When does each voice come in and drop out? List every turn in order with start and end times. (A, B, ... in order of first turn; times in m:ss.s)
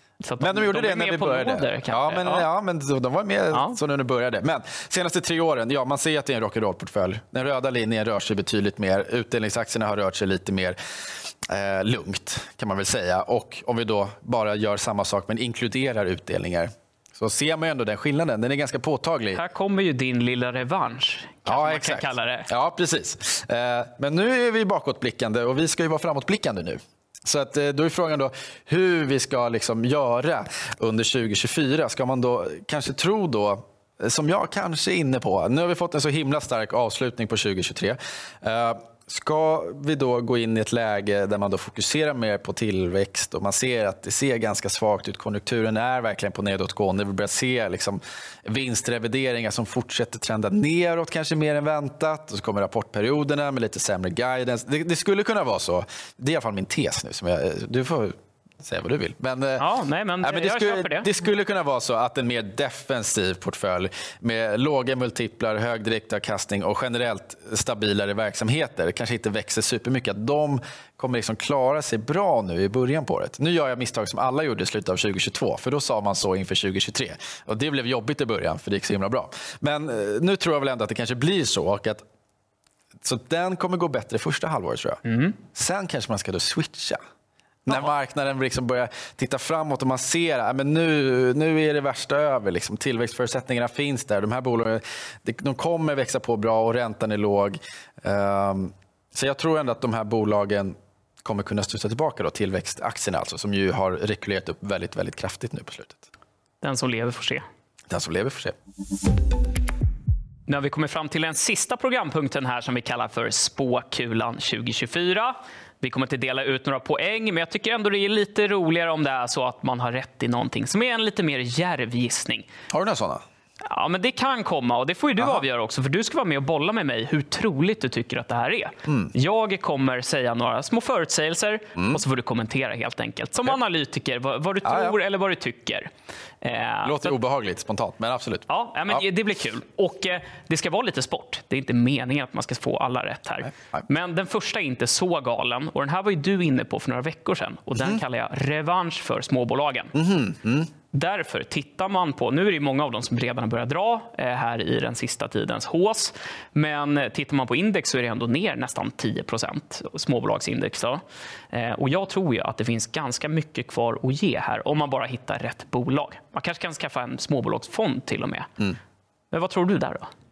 0:00.2-0:02.5 A
0:00.4-0:19.4 B
0:03.5-0:03.8 A
0:19.3-0:22.5 A
0:21.4-0:59.6 B
0:59.6-1:01.1 A
1:00.2-1:22.0 B
1:23.0-1:27.0 B
1:25.0-1:25.4 A
1:27.6-1:46.0 B
1:46.6-1:47.4 A
1:47.9-1:48.6 B
1:50.5-2:02.5 A
2:02.7-2:03.2 B
2:03.6-2:15.9 A
2:14.6-2:15.0 B
2:16.4-2:17.1 A
2:16.8-2:19.0 B
2:18.5-2:29.9 A
2:29.9-2:30.7 B
2:30.9-2:48.5 A
2:49.3-2:50.1 A